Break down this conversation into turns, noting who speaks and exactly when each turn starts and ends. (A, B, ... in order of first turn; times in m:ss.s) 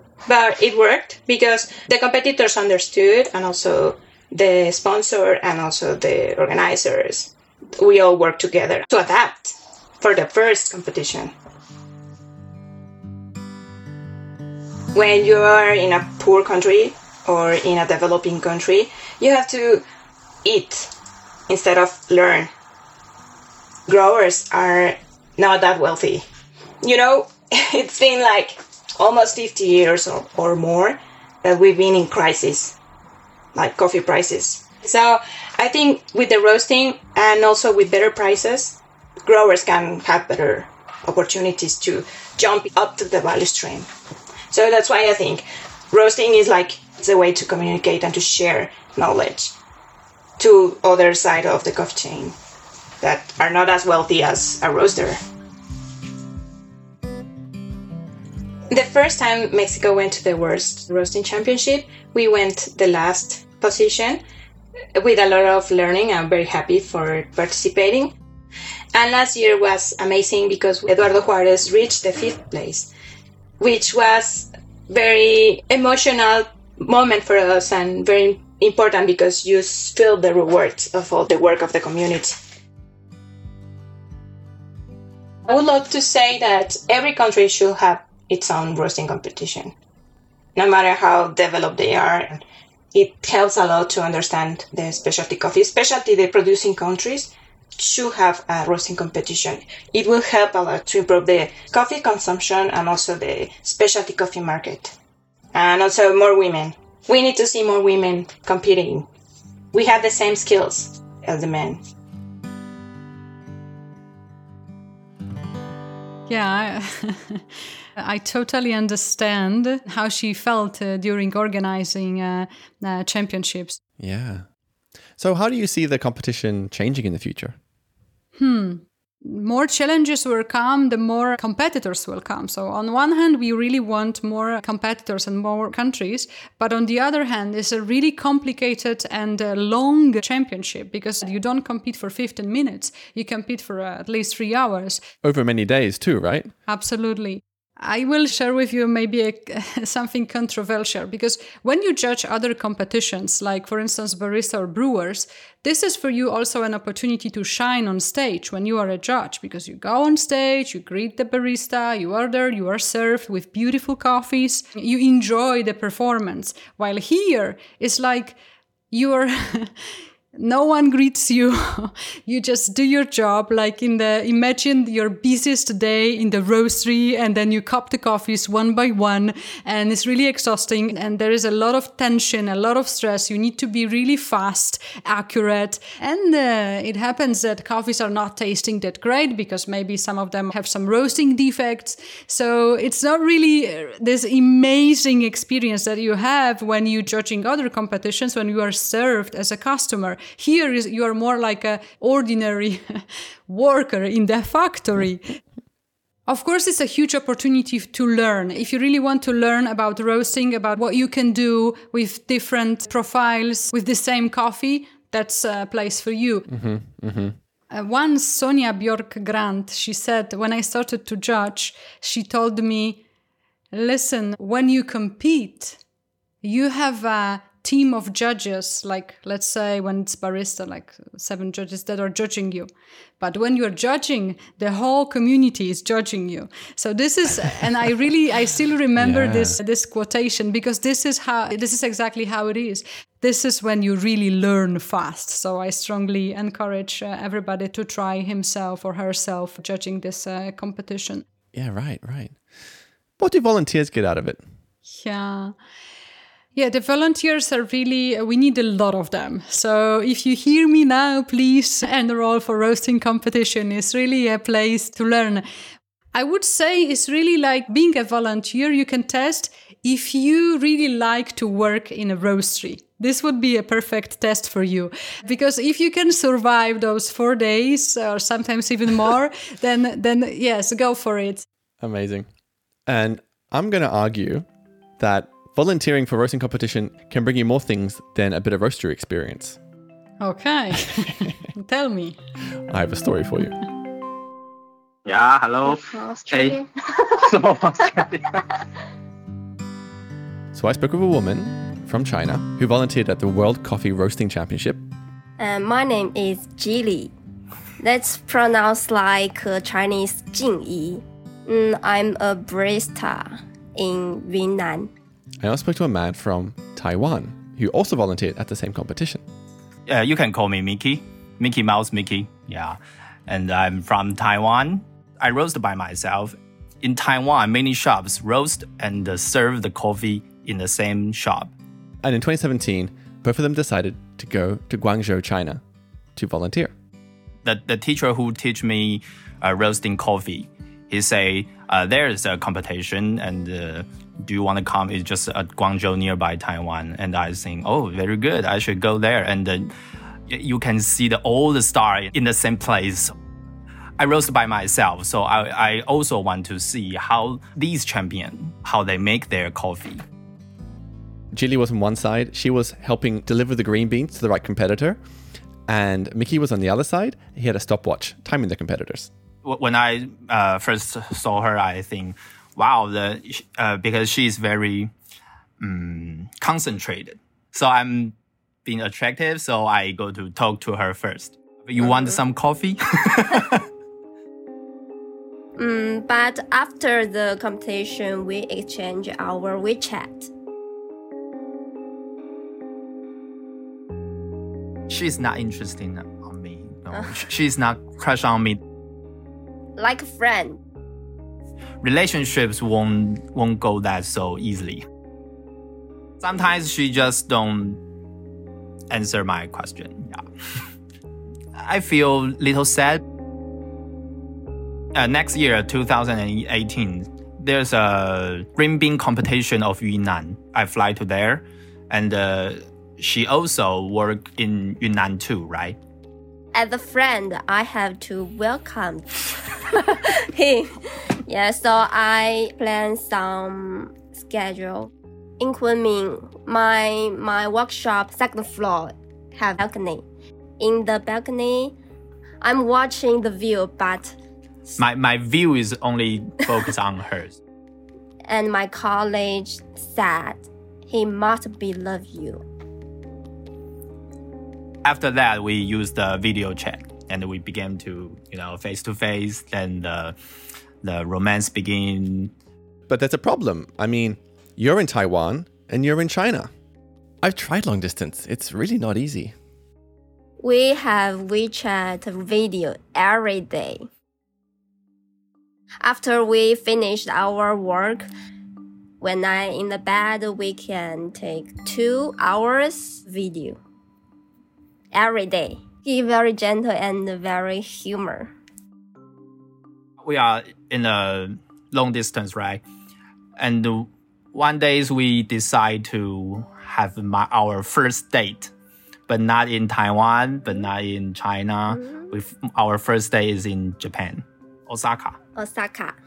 0:00.3-0:11.3 A
0:14.9-0:19.8 A
0:20.4-0:20.9 A
0:21.5-0:22.5 A
0:23.9-0:26.2 A
0:26.8-0:32.8 A
0:33.6-0:43.9 A
0:44.5-0:49.6 A
0:50.4-0:52.4 A
0:53.0-0:55.2 A
0:58.7-1:04.2 A
1:05.0-1:08.1 A
1:08.9-1:12.9 A
1:13.6-1:22.4 A
1:25.5-1:29.7 A
1:30.6-1:32.4 A
1:32.9-1:44.9 A
1:45.5-1:49.1 A
1:49.7-1:51.8 A
1:56.3-2:03.8 B
2:04.0-2:04.5 C
2:05.2-2:07.6 C
2:08.4-2:25.0 B
2:25.2-2:26.5 C
2:26.7-2:48.4 B
2:48.9-2:49.8 B
2:50.4-3:25.4 B
3:26.3-3:36.5 B
3:36.5-3:37.4 C
3:37.7-3:43.0 B
3:43.7-3:45.8 B
3:46.4-4:11.2 B
3:59.0-3:59.6 C
4:11.5-4:12.4 C
4:13.2-4:14.4 C
4:14.9-4:15.6 B
4:16.6-4:25.4 B
4:26.1-4:41.4 B
4:41.8-4:42.3 C
4:42.9-4:44.5 C
4:45.0-4:49.6 C
4:50.2-4:52.2 B
4:52.7-4:53.6 C
4:55.1-4:56.6 D
4:55.6-4:56.7 E
4:57.3-4:58.2 D
5:00.5-5:04.8 C
5:05.4-5:07.1 E
5:07.8-5:14.9 E
5:15.4-5:19.2 C
5:19.9-5:31.5 F
5:32.0-5:35.6 C
5:36.2-5:36.7 C
5:37.4-5:49.7 F
5:50.3-5:53.1 F
5:54.0-6:00.0 F
6:01.3-6:05.0 C
6:05.7-6:09.1 C
6:09.4-6:14.9 F
6:15.6-6:23.6 F
6:21.8-6:22.2 E
6:25.6-6:30.3 E
6:34.9-6:38.6 F
6:36.9-6:37.2 E
6:39.8-6:40.6 E
6:41.8-6:44.8 F
6:46.2-6:47.8 F
6:48.9-6:50.2 F
6:51.6-6:53.0 F
6:54.9-7:05.8 F
7:06.5-7:20.0 E
7:20.6-7:21.7 E
7:22.4-7:24.2 E
7:24.8-7:27.4 F
7:28.3-7:32.4 E
7:34.8-7:40.2 F
7:40.8-7:42.3 F
7:42.9-7:46.5 C
7:47.2-7:49.4 C
7:50.4-7:53.9 E
7:55.8-7:58.1 E
7:59.0-8:03.6 E
8:04.9-8:08.3 E
8:10.0-8:12.6 F
8:13.4-8:18.5 F
8:19.1-8:25.2 F
8:21.7-8:22.2 E
8:25.4-8:26.0 E